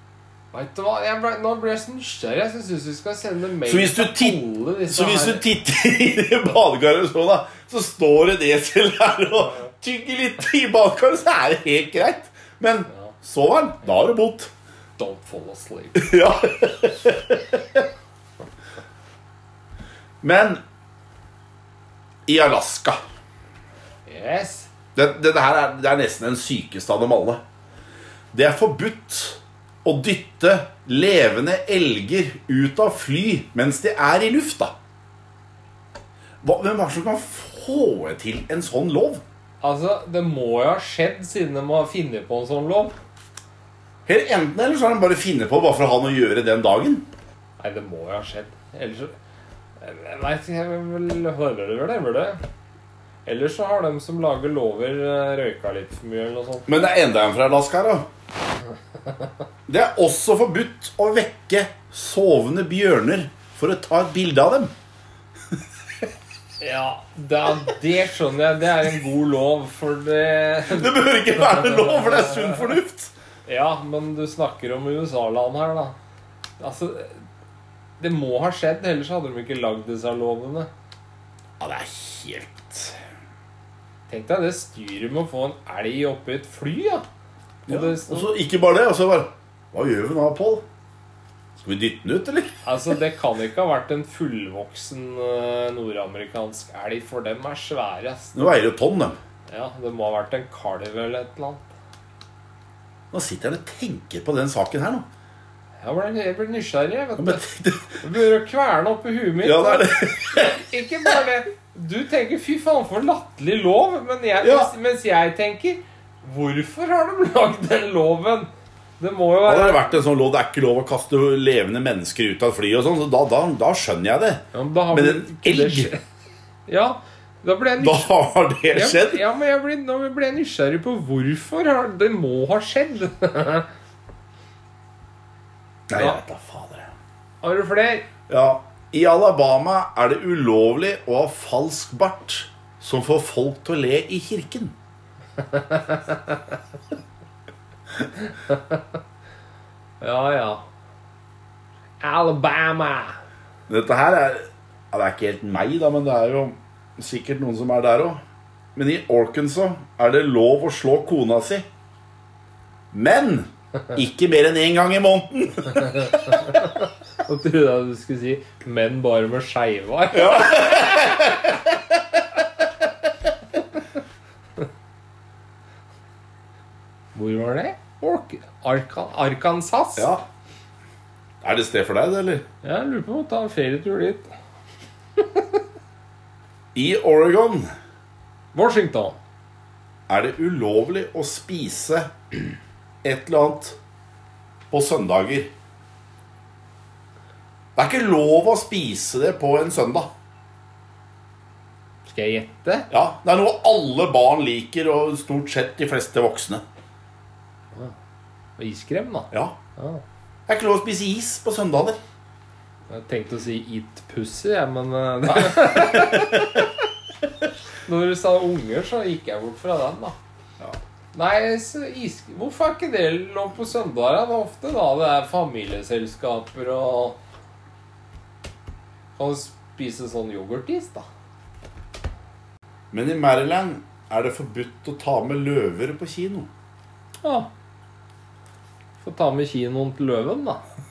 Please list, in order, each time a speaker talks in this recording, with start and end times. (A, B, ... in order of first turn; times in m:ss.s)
0:00.5-0:05.4 A
0:03.7-0:14.5 B
0:15.0-0:16.1 A
0:16.0-0:17.9 B
0:20.2-0:20.6 B
0:22.3-0:23.0 B
0:24.1-0:24.7 A
0:25.0-0:27.4 B
0:28.3-0:34.8 B
0:36.4-0:39.2 B
0:39.6-0:43.0 A
0:44.1-0:47.1 B
0:47.6-0:49.2 A
0:49.8-0:52.4 A
0:53.3-0:56.7 A
0:56.7-0:58.0 B
0:59.7-1:04.7 B
1:06.6-1:12.8 A
1:10.7-1:13.1 B
1:13.5-1:16.0 A
1:16.6-1:17.2 A
1:18.0-1:20.7 A
1:21.6-1:23.0 B
1:24.1-1:27.0 A
1:27.7-1:28.3 A
1:27.7-1:30.6 B
1:31.6-1:32.6 B
1:32.6-1:38.5 A
1:38.4-1:39.2 B
1:39.5-1:41.6 A
1:43.1-1:45.1 B
1:45.8-1:47.4 A
1:47.2-1:48.0 B
1:48.0-1:58.5 A
1:49.4-1:50.7 B
1:54.4-1:54.7 B
1:59.0-2:00.0 A
1:59.5-2:05.9 B
2:04.5-2:06.0 A
2:06.7-2:08.1 A
2:07.8-2:09.2 B
2:08.7-2:13.7 A
2:15.9-2:16.9 B
2:15.9-2:16.2 A
2:17.4-2:18.1 A
2:18.3-2:24.8 B
2:25.4-2:26.6 A
2:28.2-2:28.8 A
2:30.0-2:30.6 A
2:32.0-2:33.2 A
2:33.7-2:38.2 B
2:38.8-2:41.7 B
2:42.9-2:46.3 B
2:45.9-2:51.4 A
2:50.1-2:51.7 B
2:57.2-3:00.1 A
3:00.0-3:00.2 B
3:01.4-3:02.4 B
3:02.6-3:04.3 A
3:05.2-3:05.4 A
3:06.7-3:07.7 B
3:08.5-3:09.2 A
3:10.1-3:13.8 B
3:14.7-3:15.5 B
3:17.8-3:20.1 B
3:22.1-3:22.9 A
3:22.9-3:26.6 B
3:28.6-3:30.0 A
3:30.5-3:32.0 B
3:32.9-3:36.8 A
3:37.9-3:40.2 A
3:41.1-3:47.2 A
3:49.2-3:51.1 A
3:52.9-3:56.5 B
3:57.2-3:57.5 A
3:59.0-4:00.6 A